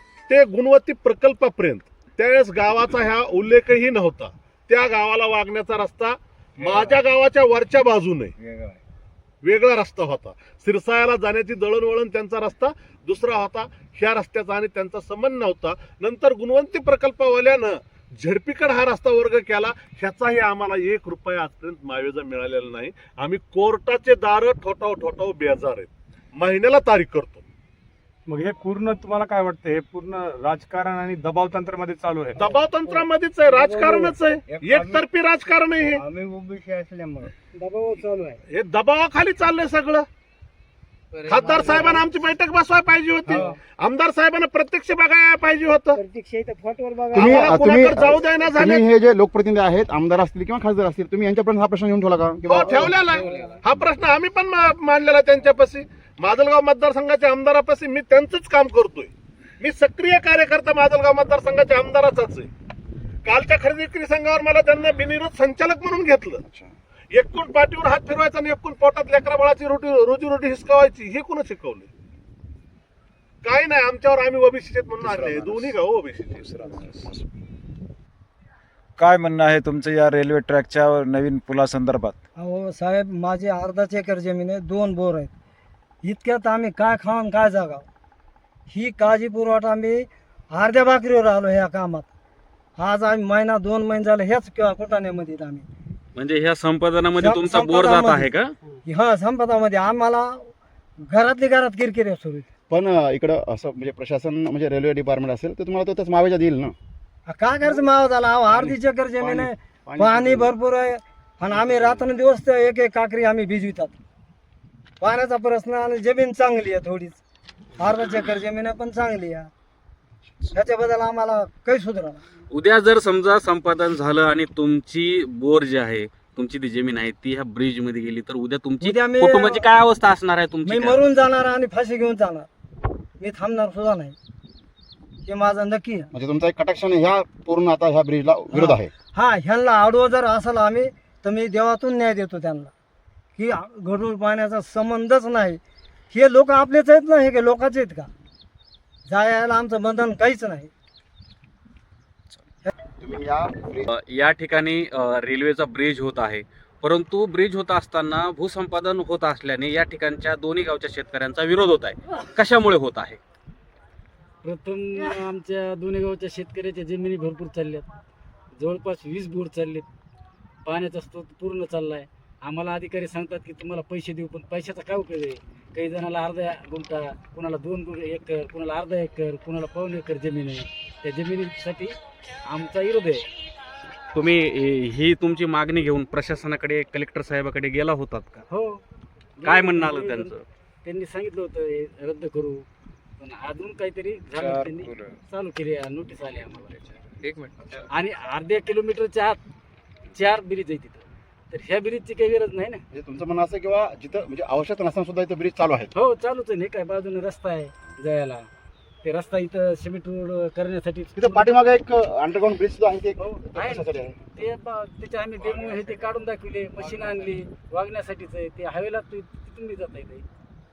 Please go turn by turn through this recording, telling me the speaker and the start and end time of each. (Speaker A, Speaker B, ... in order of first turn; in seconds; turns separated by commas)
Speaker A: 0.3-8.3, Speaker A: 9.4-27.4, Speaker B: 28.3-32.5, Speaker A: 32.4-36.0, Speaker C: 36.0-38.4, Speaker A: 38.5-40.0, Speaker A: 41.2-46.0, Speaker D: 41.5-41.8, Speaker C: 41.5-41.9, Speaker C: 46.0-47.5, Speaker A: 47.1-48.8, Speaker E: 47.1-53.1, Speaker A: 52.5-62.5, Speaker C: 52.8-53.4, Speaker A: 63.2-66.4, Speaker E: 66.5-66.7, Speaker A: 67.1-71.9, Speaker A: 73.4-76.5, Speaker F: 75.0-75.8, Speaker F: 76.3-77.2, Speaker F: 79.0-82.2, Speaker C: 82.4-85.3, Speaker C: 86.0-87.8, Speaker C: 88.7-92.1, Speaker C: 92.8-95.7, Speaker G: 96.1-98.5, Speaker C: 97.2-98.3, Speaker C: 98.8-100.5, Speaker C: 101.0-102.5, Speaker E: 102.7-106.7, Speaker C: 107.3-113.9, Speaker E: 108.5-110.5, Speaker E: 111.5-112.0, Speaker C: 115.0-117.2, Speaker C: 117.8-119.5, Speaker C: 120.5-122.2, Speaker G: 122.5-131.0, Speaker C: 128.8-129.7, Speaker C: 130.6-132.5, Speaker C: 133.2-134.2, Speaker C: 135.2-136.1, Speaker E: 136.1-138.9, Speaker C: 138.5-142.7, Speaker C: 143.3-145.6, Speaker C: 146.1-148.1, Speaker C: 149.1-150.7, Speaker E: 153.0-153.9, Speaker G: 153.9-163.2, Speaker D: 164.4-167.8, Speaker D: 168.6-169.8, Speaker D: 170.7-182.0, Speaker D: 182.5-183.3, Speaker G: 184.1-188.4, Speaker D: 188.5-188.8, Speaker D: 189.4-190.3, Speaker G: 189.4-190.4, Speaker D: 190.8-192.6, Speaker D: 193.2-197.0, Speaker F: 194.3-195.2, Speaker D: 197.9-199.4, Speaker D: 200.1-202.8, Speaker E: 202.9-205.9, Speaker D: 205.9-208.4, Speaker D: 209.0-211.6, Speaker E: 211.2-214.2, Speaker D: 213.2-220.2, Speaker F: 215.4-215.8